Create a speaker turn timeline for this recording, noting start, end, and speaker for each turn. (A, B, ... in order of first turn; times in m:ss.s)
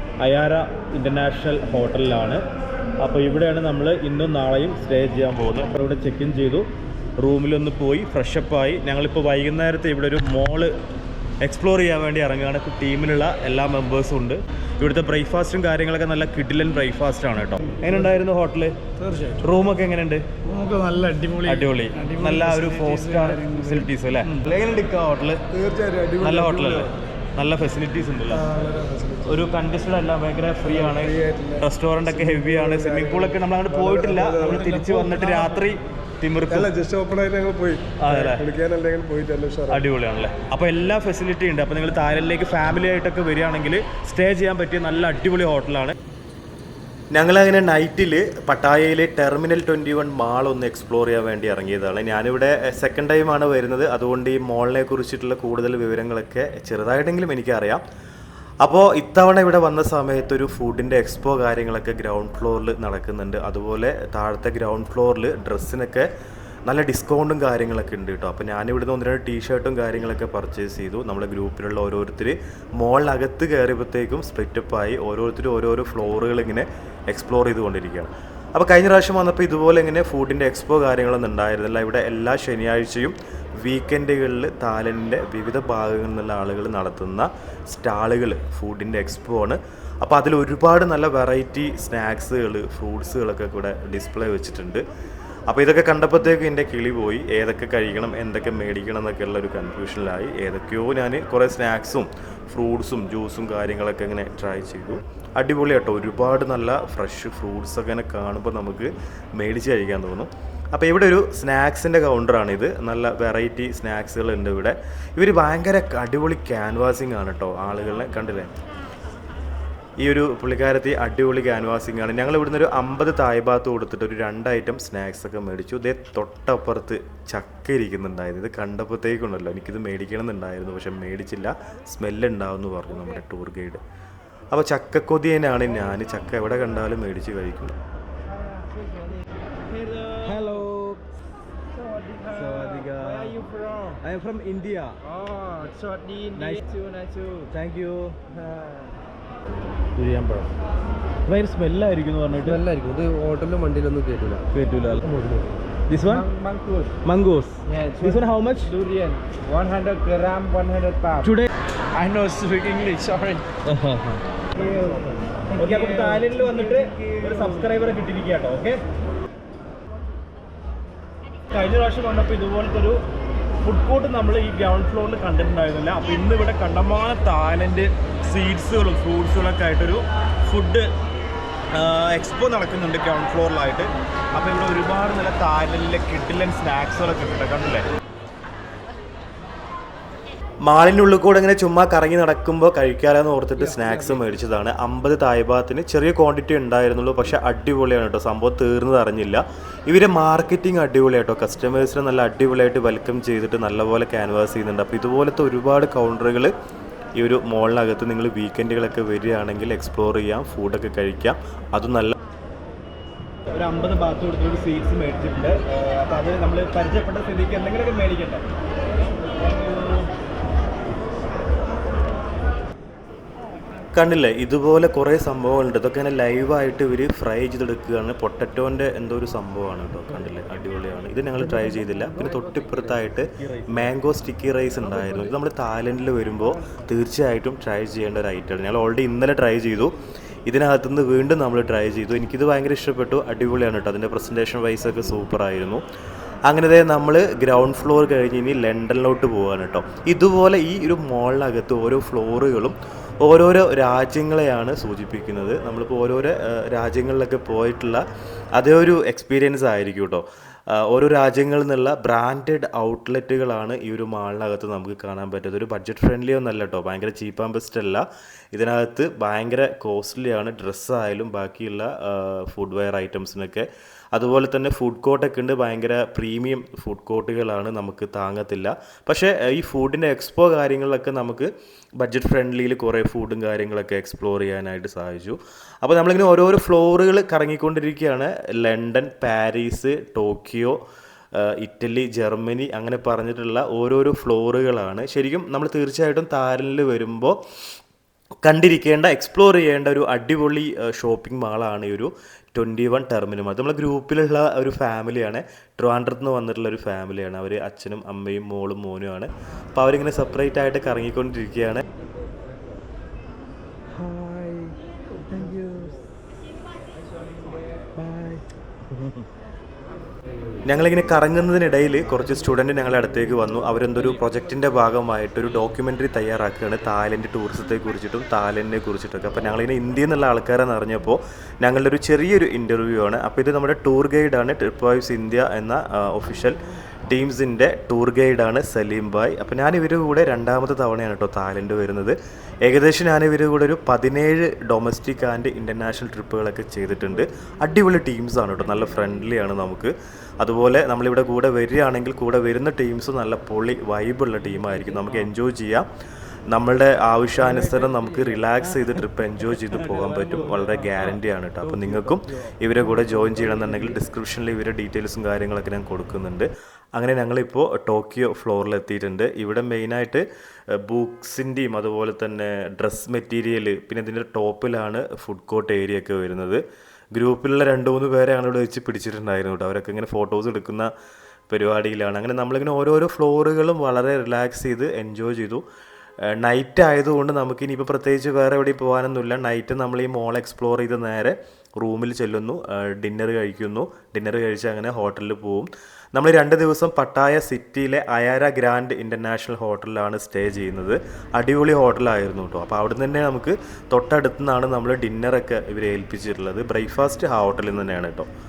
0:00.2-0:02.4 A
0:03.0-0:06.6 A
0:07.2-0:10.7 A
0:11.4-0:18.8 A
0:19.4-0:20.2 A
0:20.5-0:23.7 B
0:21.4-0:25.4 A
0:25.5-0:26.9 B
0:26.2-0:28.5 A
0:28.3-0:29.5 B
0:29.2-0:36.7 A
0:30.7-0:35.6 B
0:36.5-0:39.8 B
0:38.0-0:38.5 A
0:39.7-0:45.9 A
0:47.1-0:57.8 A
0:58.6-1:06.1 A
1:06.7-1:34.8 A
1:35.5-1:58.5 A
2:00.0-2:13.8 A
2:14.5-2:17.8 A
2:18.5-2:19.1 C
2:19.7-2:20.6 C
2:20.2-2:21.0 A
2:21.7-2:24.0 C
2:22.3-2:23.4 A
2:24.0-2:25.0 A
2:25.0-2:27.5 C
2:26.4-2:26.6 A
2:27.5-2:28.2 A
2:29.9-2:30.5 A
2:31.2-2:32.6 A
2:32.4-2:34.4 D
2:34.5-2:35.0 A
2:35.9-2:36.2 A
2:36.0-2:36.9 C
2:37.0-2:38.7 A
2:37.6-2:41.3 C
2:41.2-2:41.5 A
2:42.0-2:43.5 C
2:43.6-2:44.2 A
2:44.5-2:47.9 C
2:45.5-2:48.8 A
2:51.5-2:53.0 A
2:53.6-3:00.9 A
3:01.7-3:07.8 A
3:10.6-3:26.5 A
3:27.2-3:32.1 A
3:33.5-3:38.4 A
3:39.4-3:40.1 A
3:43.9-3:59.9 A
4:00.5-4:05.8 A
4:06.5-4:18.0 A
4:18.5-4:41.5 A
4:42.0-4:50.8 A
4:51.3-4:57.4 A
4:58.4-5:11.8 A
5:14.0-5:14.7 A
5:15.3-5:15.9 A
5:18.0-5:18.4 A
5:20.6-5:55.9 A
5:56.5-6:16.6 A
6:17.1-6:20.9 A
6:21.5-6:25.6 A
6:26.2-6:48.3 A